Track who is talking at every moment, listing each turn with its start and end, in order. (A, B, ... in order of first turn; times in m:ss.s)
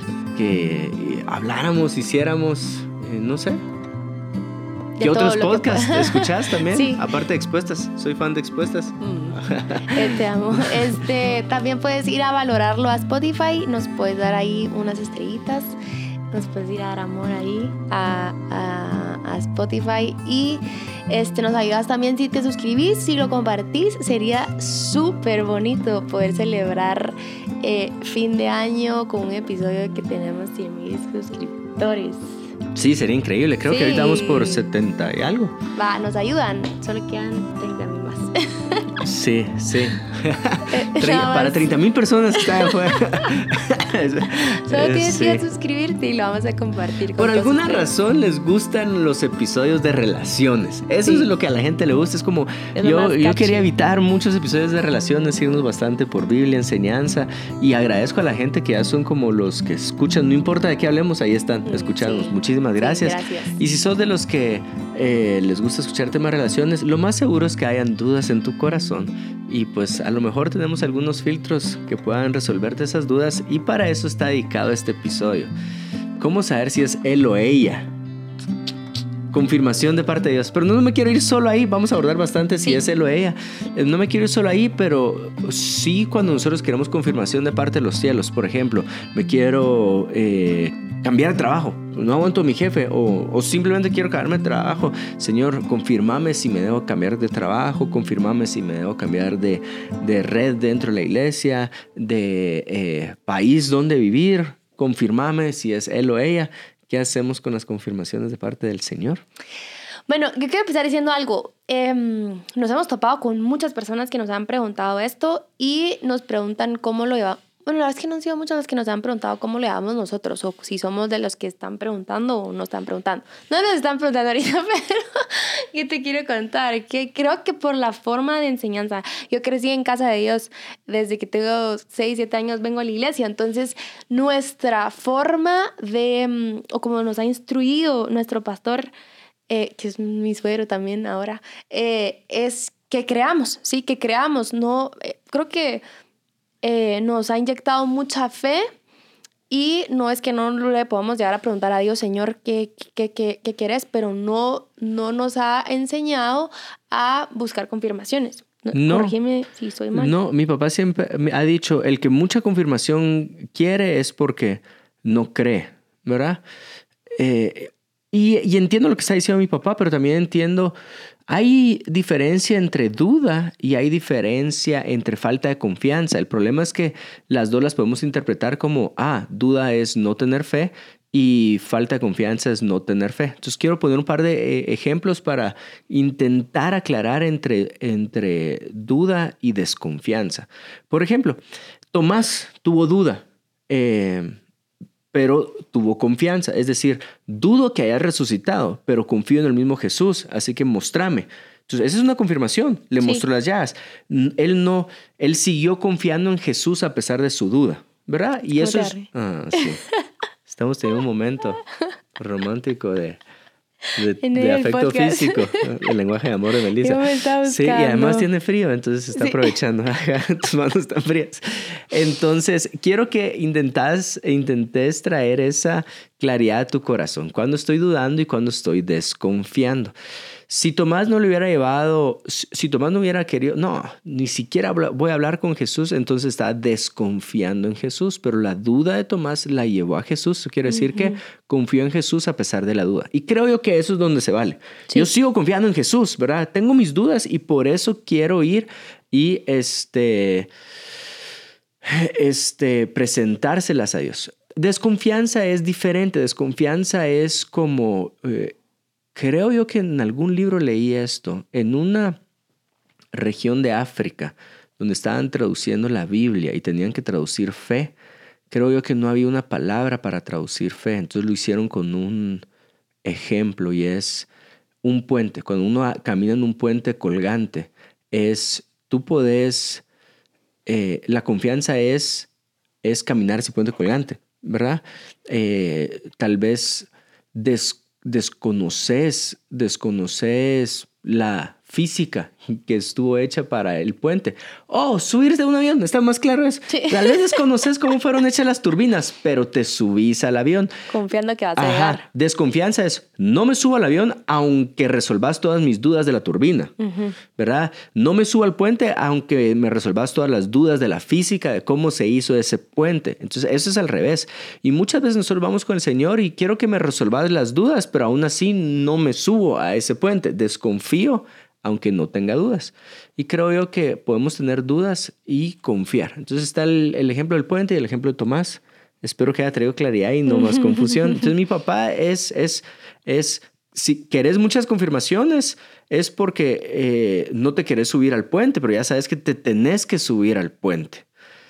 0:00.3-0:03.6 A
0:05.0-0:07.0 B
0:05.0-0:10.9 A
0:09.0-0:09.4 B
0:09.9-0:15.8 B
0:16.3-0:32.4 B
0:32.7-0:35.5 A
0:33.6-0:34.6 B
0:35.8-0:38.9 B
0:39.0-0:45.4 A
0:40.7-0:41.7 B
0:42.3-0:42.8 B
0:44.4-0:47.9 B
0:47.2-1:15.5 A
0:52.7-0:53.7 B
1:01.7-1:03.6 B
1:16.2-1:17.9 A
1:19.3-1:49.2 A
1:50.1-2:18.9 B
2:19.5-2:25.8 B
2:26.6-2:28.6 B
2:29.5-2:40.1 B
2:38.7-2:39.1 A
2:39.9-2:46.4 A
2:47.2-2:50.7 A
2:51.3-3:11.4 A
3:11.9-3:14.4 A
3:15.1-3:29.8 A
3:28.6-3:30.0 B
3:30.4-3:31.6 A
3:32.2-3:33.2 A
3:34.0-3:49.9 A
3:34.2-3:35.6 B
3:36.8-3:38.3 B
3:39.2-3:39.5 B
3:50.5-4:10.5 A
4:00.7-4:01.2 B
4:11.8-4:18.5 A
4:19.1-4:22.2 A
4:23.1-4:27.9 A
4:28.5-4:32.4 A
4:33.0-4:34.3 A
4:34.8-4:39.8 A
4:40.6-4:42.3 A
4:42.8-5:00.7 A
4:56.7-4:57.4 B
5:00.9-5:02.0 B
5:01.6-5:06.7 A
5:06.8-5:07.1 B
5:07.4-5:41.0 A
5:30.3-5:31.3 B